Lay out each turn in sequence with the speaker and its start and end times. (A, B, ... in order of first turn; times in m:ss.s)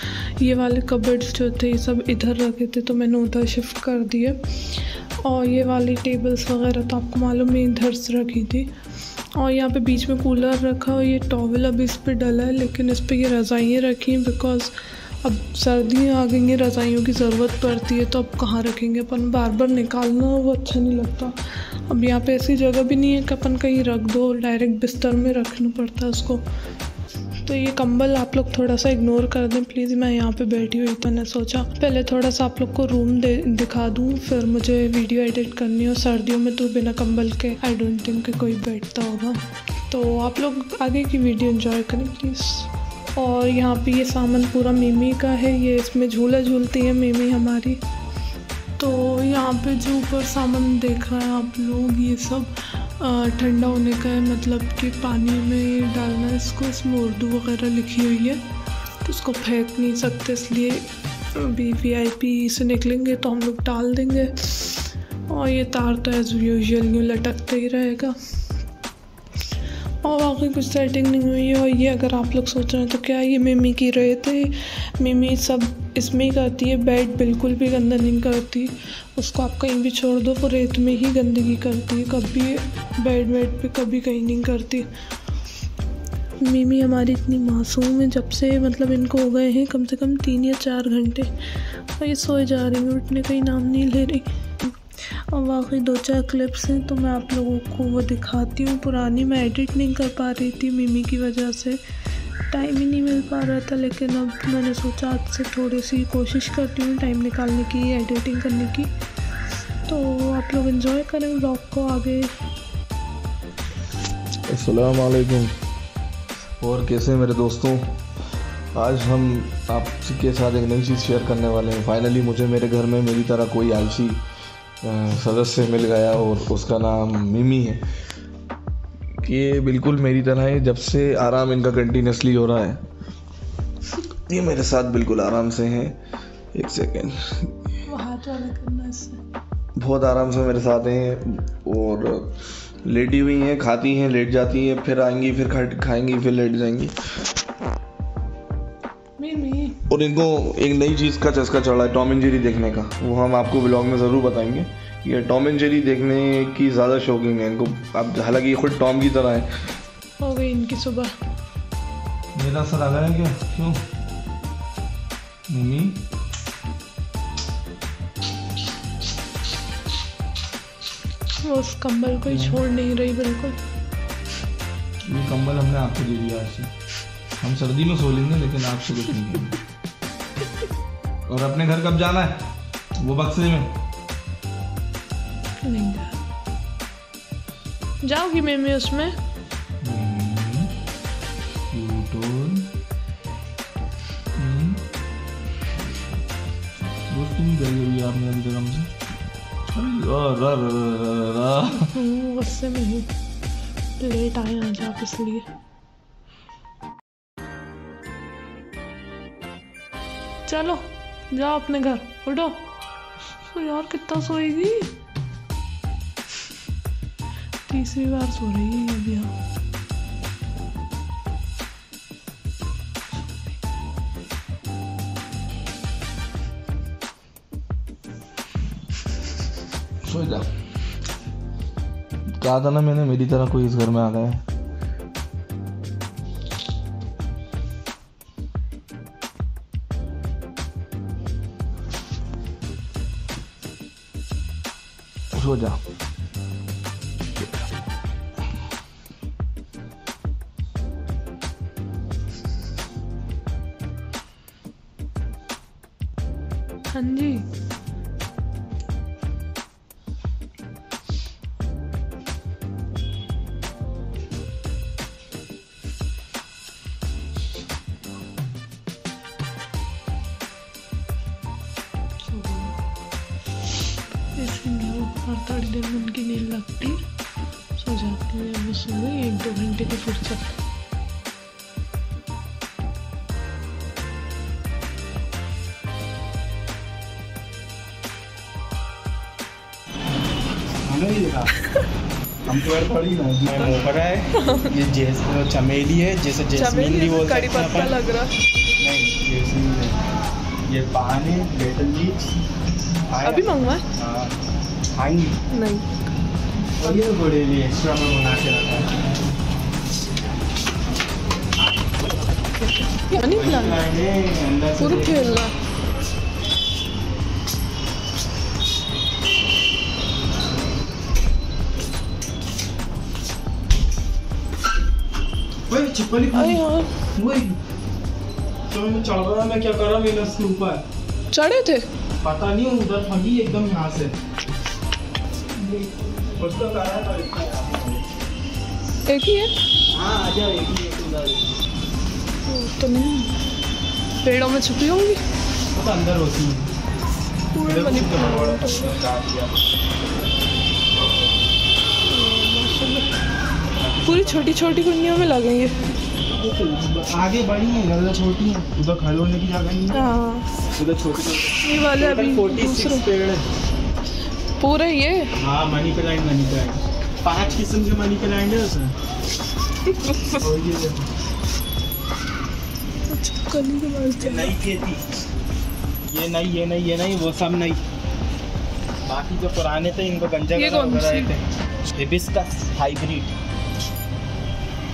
0:00.4-0:04.4 A
0:05.2-0:08.7 A
0:09.4-0:26.4 A
0:27.4-0:47.8 A
0:48.8-0:58.4 A
0:59.0-1:08.2 A
1:10.0-1:24.9 A
1:26.4-1:31.3 A
1:32.0-1:34.2 A
1:35.3-1:41.8 A
1:42.5-1:48.9 A
1:49.9-1:52.3 A
1:54.5-1:55.5 B
1:56.6-1:57.9 B
1:58.7-2:04.2 B
2:04.8-2:07.8 B
2:09.2-2:12.8 B
2:14.3-2:16.0 B
2:16.5-2:17.5 B
2:17.9-2:19.2 A
2:19.8-2:26.9 B
2:29.2-2:29.8 A
2:29.9-2:39.5 B
2:40.2-2:41.1 A
2:42.4-2:43.8 B
2:45.5-2:46.0 B
2:51.4-2:53.6 A
2:52.3-2:52.6 B
2:55.1-2:56.7 B
2:57.4-2:59.6 B
3:01.3-3:02.4 B
3:03.0-3:03.7 B
3:05.7-3:06.2 A
3:08.0-3:09.2 A
3:09.8-3:10.7 B
3:11.7-3:12.7 B
3:14.4-3:14.8 B
3:17.1-3:18.9 B
3:19.7-3:22.0 B
3:22.0-3:23.1 A
3:24.0-3:25.5 A
3:30.5-3:32.6 A
3:33.5-3:34.9 A
3:37.7-3:39.3 A
3:50.0-3:50.5 B
3:52.4-3:54.4 B
4:05.3-4:05.8 B
4:16.9-4:17.4 A
4:32.2-4:32.8 A
4:34.4-4:37.0 A
4:37.8-4:40.6 A
4:50.9-4:51.6 C
4:52.4-4:58.0 C
4:54.4-4:54.7 A
4:56.6-4:58.3 A
4:58.8-5:00.0 C
5:00.7-5:02.4 C
5:03.1-5:04.3 C
5:03.2-5:03.8 A
5:05.0-5:05.4 C
5:05.5-5:05.8 A
5:06.8-5:09.0 C
5:13.1-5:13.8 A
5:13.2-5:15.5 C
5:14.8-5:15.5 A
5:25.7-5:27.6 C
5:26.3-5:26.9 A
5:28.7-5:30.8 C
5:31.3-5:31.8 A
5:32.2-5:34.1 C
5:36.4-5:38.0 C
5:39.1-5:39.5 A
5:39.9-5:41.6 C
5:42.5-5:43.3 A
5:44.2-5:45.2 A
5:45.7-5:46.7 C
5:47.5-5:48.9 A
5:47.6-5:49.6 C
5:52.1-5:53.1 A
5:53.8-5:54.7 C
5:54.1-5:55.7 A
5:56.3-6:00.1 C
5:59.9-6:00.5 A
6:00.8-6:03.4 C
6:01.6-6:03.0 A
6:04.6-6:05.3 A
6:05.4-6:09.0 C
6:10.3-6:11.1 C
6:13.1-6:14.5 A
6:14.2-6:15.0 C
6:16.1-6:17.8 C
6:19.0-6:21.4 C
6:20.6-6:21.3 A
6:22.0-6:23.3 C